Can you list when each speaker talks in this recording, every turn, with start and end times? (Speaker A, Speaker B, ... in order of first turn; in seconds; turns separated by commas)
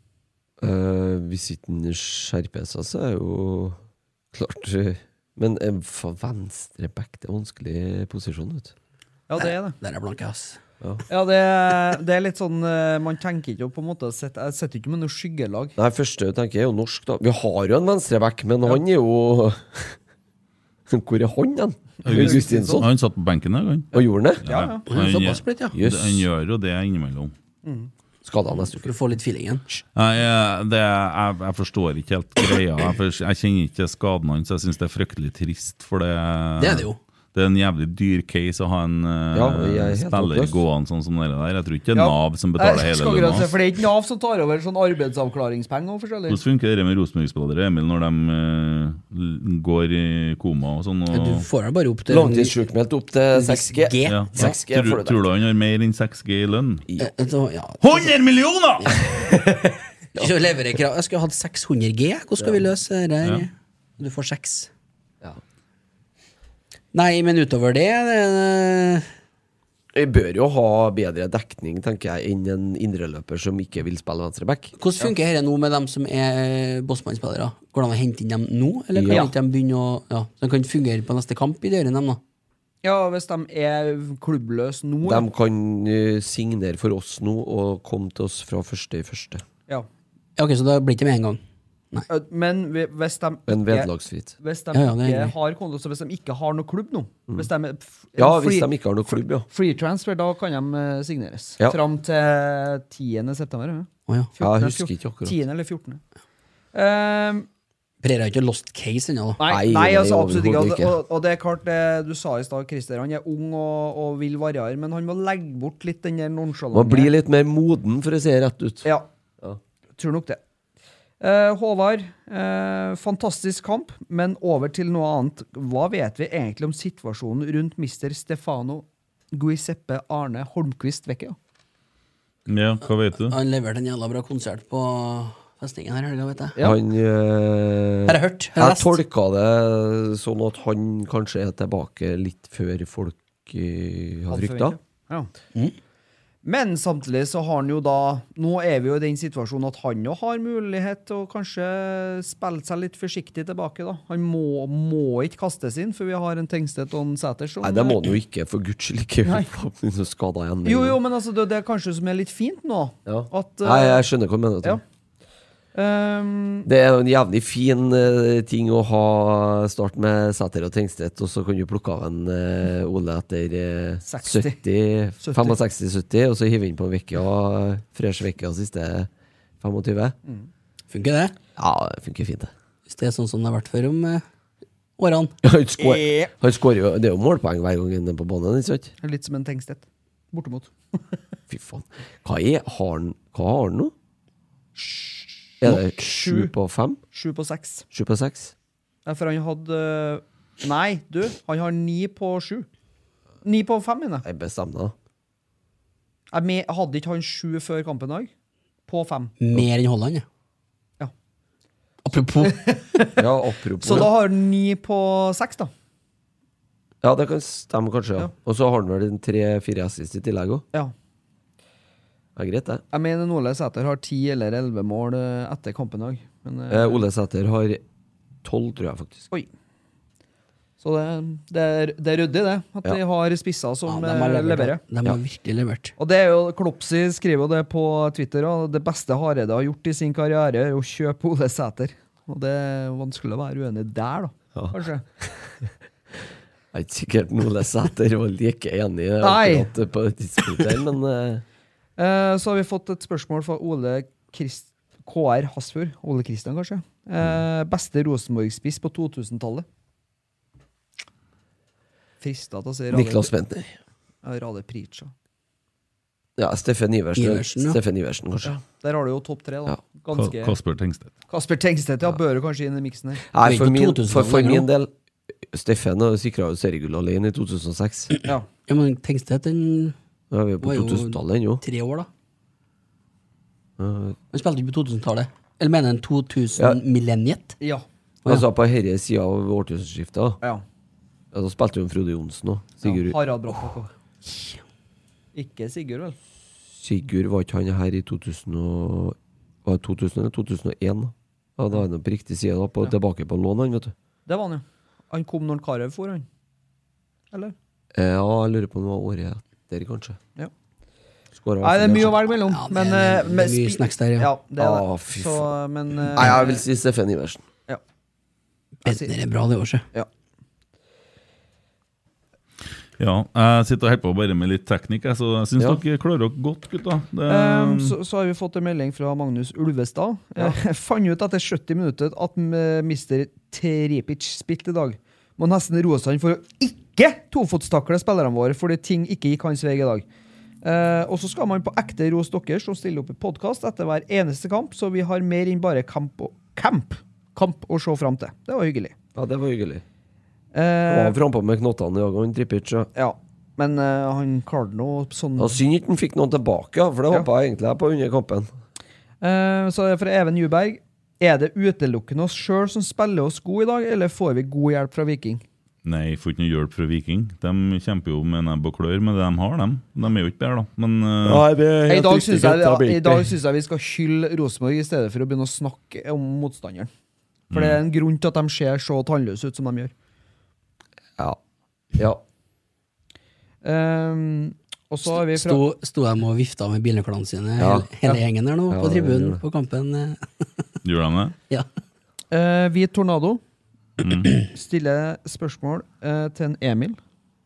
Speaker A: 0.6-3.8, Speaker A: 4.3-8.7, Speaker B: 9.3-9.8, Speaker C: 9.4-10.6, Speaker B: 11.1-15.7, Speaker A: 15.8-20.0, Speaker A: 20.9-22.9, Speaker B: 22.0-22.9, Speaker D: 22.0-27.3, Speaker A: 23.9-24.4, Speaker B: 24.4-24.9, Speaker C: 24.9-25.8, Speaker A: 25.7-26.2, Speaker B: 27.6-27.9, Speaker A: 28.2-28.9, Speaker C: 28.8-29.8, Speaker D: 29.9-43.5, Speaker C: 36.6-37.0, Speaker A: 39.3-40.6, Speaker B: 41.9-46.4, Speaker D: 46.3-51.5, Speaker C: 51.1-52.5, Speaker A: 52.1-55.2, Speaker C: 53.3-54.6, Speaker D: 54.1-56.9, Speaker C: 57.0-58.1, Speaker D: 57.8-58.9, Speaker C: 58.8-59.1, Speaker A: 59.1-59.6, Speaker C: 60.1-64.7, Speaker C: 66.9-69.1, Speaker A: 69.9-74.7, Speaker C: 74.8-82.2, Speaker A: 78.9-79.3, Speaker B: 82.8-85.2, Speaker A: 85.0-89.4, Speaker C: 90.4-91.4, Speaker B: 92.1-98.7, Speaker A: 93.5-94.3, Speaker C: 94.7-95.3, Speaker A: 98.2-99.5, Speaker B: 99.5-106.0, Speaker C: 104.1-104.3, Speaker A: 104.4-105.4, Speaker B: 106.7-107.5, Speaker C: 108.0-109.4, Speaker B: 109.4-117.1, Speaker A: 109.4-111.0, Speaker A: 116.7-118.9, Speaker B: 120.0-120.4, Speaker B: 121.2-131.4, Speaker D: 132.5-133.3, Speaker C: 133.2-136.6, Speaker A: 136.6-144.8, Speaker C: 138.1-139.0, Speaker B: 144.3-145.3, Speaker B: 146.4-158.0, Speaker A: 157.6-161.0, Speaker B: 160.6-164.0, Speaker A: 163.1-164.8, Speaker B: 165.7-166.7, Speaker A: 166.7-179.1, Speaker B: 174.1-174.6, Speaker B: 175.2-175.6, Speaker A: 179.6-180.1, Speaker C: 180.9-181.3, Speaker A: 181.6-182.5, Speaker C: 182.9-184.2, Speaker C: 185.0-185.3, Speaker A: 185.4-188.9, Speaker B: 185.8-186.3, Speaker B: 189.0-191.2, Speaker A: 191.5-193.9, Speaker B: 194.8-196.5, Speaker A: 195.6-197.0, Speaker B: 197.1-197.8, Speaker A: 197.9-198.5, Speaker B: 199.0-202.7, Speaker B: 203.4-204.2, Speaker A: 204.2-204.9, Speaker B: 206.3-208.3, Speaker B: 208.9-209.3, Speaker C: 209.4-210.2, Speaker C: 212.0-212.6, Speaker B: 212.4-213.2, Speaker A: 213.2-214.1, Speaker B: 213.8-215.7, Speaker A: 217.0-220.6, Speaker A: 222.3-222.8, Speaker B: 222.9-227.0, Speaker A: 226.7-227.8, Speaker A: 228.4-229.3, Speaker B: 230.8-234.8, Speaker C: 233.9-235.9, Speaker B: 236.0-245.0, Speaker A: 244.5-245.6, Speaker A: 246.7-251.4, Speaker B: 249.2-249.7, Speaker B: 252.0-259.6, Speaker B: 262.2-263.3, Speaker A: 262.9-263.8, Speaker B: 264.2-265.1, Speaker A: 266.4-268.5, Speaker C: 267.1-267.8, Speaker B: 268.4-270.5, Speaker D: 270.1-271.1, Speaker B: 271.3-273.2, Speaker A: 273.3-274.9, Speaker C: 273.4-274.7, Speaker A: 275.5-278.1, Speaker C: 278.6-279.9, Speaker A: 280.3-281.6, Speaker C: 280.6-282.1, Speaker A: 283.8-284.2, Speaker C: 284.3-287.6, Speaker B: 287.6-287.8, Speaker A: 288.2-290.4, Speaker A: 291.3-293.2, Speaker B: 292.8-293.9, Speaker B: 295.3-296.2, Speaker A: 296.7-303.9, Speaker B: 304.3-306.2, Speaker A: 307.9-310.2, Speaker A: 311.3-312.2, Speaker B: 311.6-316.6, Speaker C: 312.4-314.3, Speaker A: 314.6-315.5, Speaker A: 316.1-317.4, Speaker C: 318.8-319.8, Speaker D: 323.0-327.9, Speaker B: 327.3-340.0, Speaker B: 340.6-348.9, Speaker A: 349.1-349.8, Speaker B: 350.5-351.1, Speaker A: 350.9-352.9, Speaker B: 352.9-355.6, Speaker A: 355.4-358.5, Speaker B: 359.2-365.4, Speaker D: 365.8-371.4, Speaker A: 371.2-373.3, Speaker B: 371.9-376.9, Speaker D: 377.5-377.8, Speaker B: 377.5-379.9, Speaker A: 381.9-382.2, Speaker B: 383.6-385.6, Speaker C: 385.1-390.4, Speaker A: 387.6-387.9, Speaker A: 388.7-389.4, Speaker D: 390.8-391.3, Speaker B: 392.3-393.4, Speaker D: 394.0-394.3, Speaker B: 394.5-397.0